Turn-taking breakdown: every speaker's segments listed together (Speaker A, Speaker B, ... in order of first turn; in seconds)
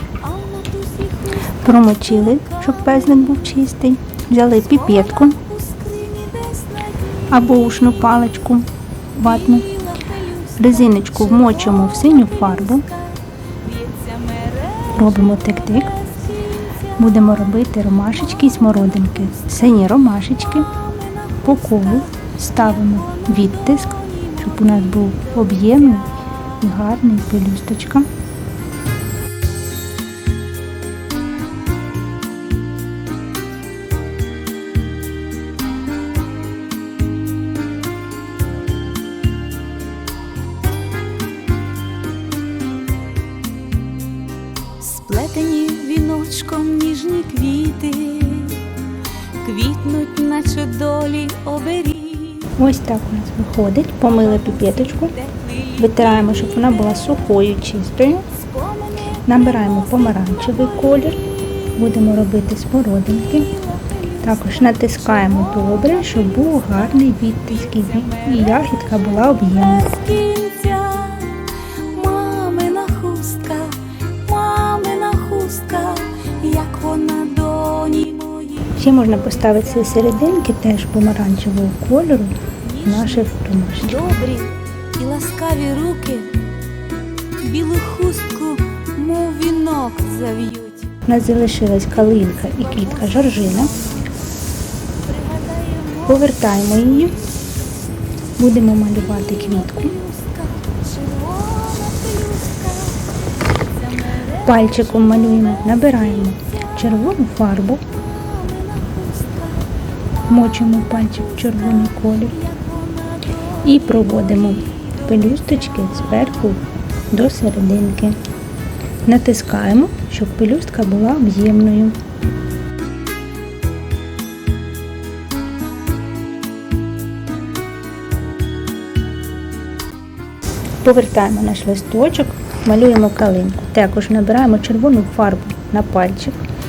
Speaker A: 0.2-3.6, 4.7-7.6, 9.2-17.1, 18.1-19.8, 20.4-26.6, 44.8-48.7, 49.4-52.5, 54.0-57.3, 58.3-61.3, 63.4-80.3, 82.7-83.3, 83.8-86.4, 87.4-91.0, 91.9-94.2, 95.1-97.5, 98.9-106.8, 107.8-116.6
Speaker B: 1.6-5.4, 7.3-9.7, 10.6-12.8, 14.9-16.0, 17.0-20.7, 21.4-28.1, 52.5-55.1, 55.8-58.2, 59.2-61.2, 61.8-63.5, 64.2-69.9, 78.8-84.2, 91.0-93.7, 96.1-97.2, 98.4-99.9, 104.4-107.8, 110.3-112.4, 113.6-118.2, 119.0-122.0, 130.8-136.4